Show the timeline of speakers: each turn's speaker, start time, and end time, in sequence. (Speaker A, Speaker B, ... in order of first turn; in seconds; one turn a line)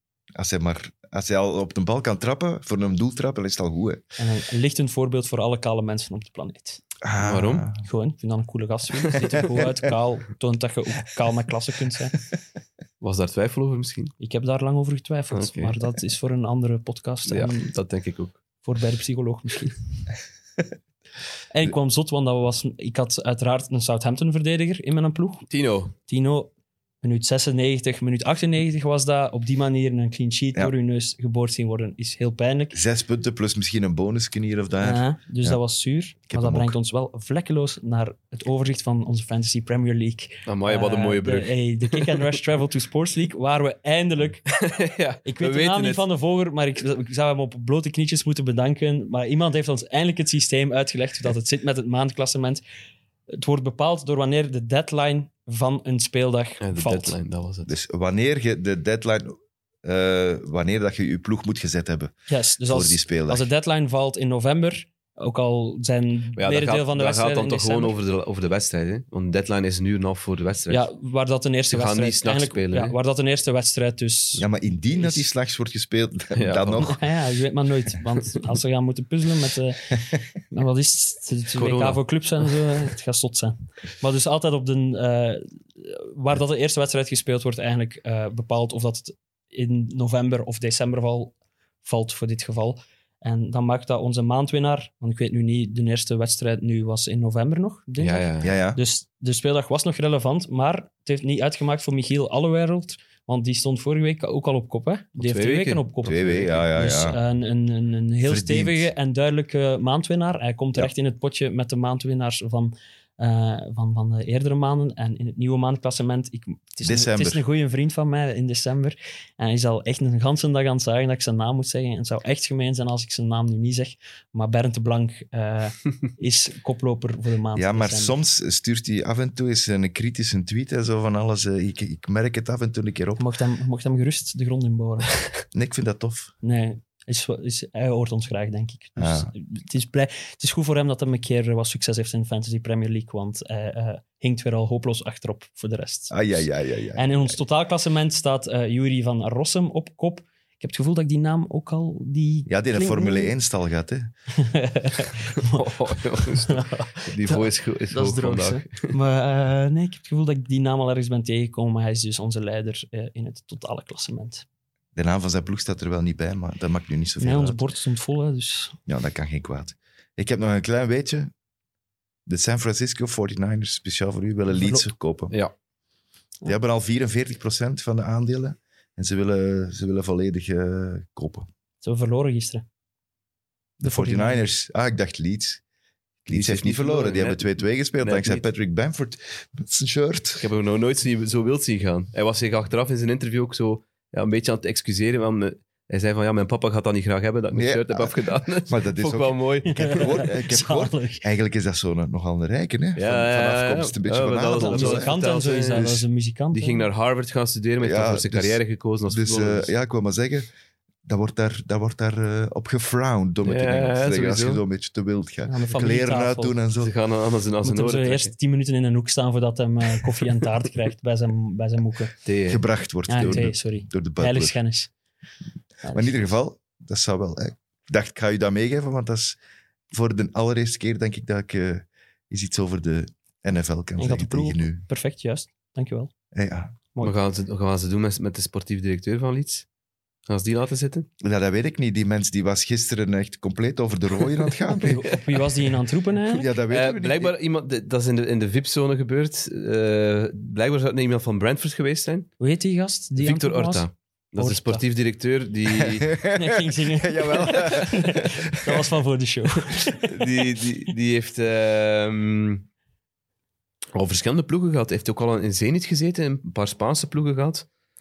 Speaker A: 0.3-4.0
Speaker B: 4.2-6.8
Speaker A: 7.0-7.8
Speaker C: 7.2-7.7
Speaker B: 7.8-12.2
Speaker C: 13.0-14.1
Speaker B: 14.2-17.7
Speaker C: 15.3-15.8
Speaker C: 17.2-18.4
Speaker B: 18.6-19.8
Speaker B: 21.5-25.4
Speaker C: 25.5-25.9
Speaker B: 26.1-26.5
Speaker B: 27.0-32.8
Speaker A: 32.7-35.6
Speaker B: 34.8-44.5
Speaker A: 36.3-36.7
Speaker C: 40.5-42.2
Speaker C: 44.5-46.0
Speaker B: 45.2-52.6
Speaker B: 53.3-57.1
Speaker C: 56.6-57.7
Speaker A: 57.6-62.1
Speaker B: 62.3-68.0
Speaker A: 62.6-63.5
Speaker C: 66.3-70.9
Speaker B: 70.7-75.2
Speaker C: 71.7-72.9
Speaker A: 74.4-77.0
Speaker C: 76.3-76.9
Speaker B: 76.8-128.2
Speaker C: 81.5-82.0
Speaker C: 98.0-98.5
Speaker A: 98.4-98.8
Speaker C: 105.2-105.9
Speaker A: 106.0-107.2
Speaker A: 108.2-108.9
Speaker A: 116.8-117.4
Speaker A: 127.5-133.2
Speaker B: 133.2-135.1
Speaker A: 135.5-136.3
Speaker B: 136.4-146.4
Speaker A: 138.9-139.3
Speaker A: 146.1-147.4
Speaker B: 146.9-153.3
Speaker A: 152.4-154.1
Speaker B: 154.3-155.7
Speaker C: 155.4-158.9
Speaker B: 156.4-164.4
Speaker A: 164.9-167.6
Speaker B: 167.2-168.8
Speaker A: 168.9-171.3
Speaker A: 172.3-175.3
Speaker B: 174.5-174.9
Speaker A: 176.4-181.5
Speaker B: 181.8-182.6
Speaker A: 183.8-185.6
Speaker B: 183.8-184.5
Speaker A: 186.2-190.5
Speaker C: 186.3-188.4
Speaker C: 190.4-200.0
Speaker A: 197.5-205.1
Speaker B: 199.7-201.2
Speaker C: 202.9-205.9
Speaker B: 204.6-206.8
Speaker A: 205.7-206.0
Speaker C: 206.5-209.7
Speaker A: 207.8-210.5
Speaker A: 211.0-216.9
Speaker C: 213.4-214.6
Speaker B: 215.5-216.6
Speaker C: 216.8-218.3
Speaker B: 217.6-222.1
Speaker C: 222.2-222.6
Speaker A: 222.5-224.6
Speaker B: 223.1-224.9
Speaker B: 225.8-226.3
Speaker A: 225.9-229.4
Speaker A: 229.9-234.8
Speaker B: 234.0-236.1
Speaker A: 236.3-236.8
Speaker C: 237.0-239.7
Speaker C: 240.3-241.1
Speaker A: 241.2-245.1
Speaker B: 244.8-246.5
Speaker A: 246.2-247.3
Speaker C: 246.7-252.3
Speaker B: 252.4-254.8
Speaker C: 253.2-256.1
Speaker A: 255.8-258.8
Speaker B: 256.3-260.3
Speaker C: 260.0-262.6
Speaker C: 263.9-267.7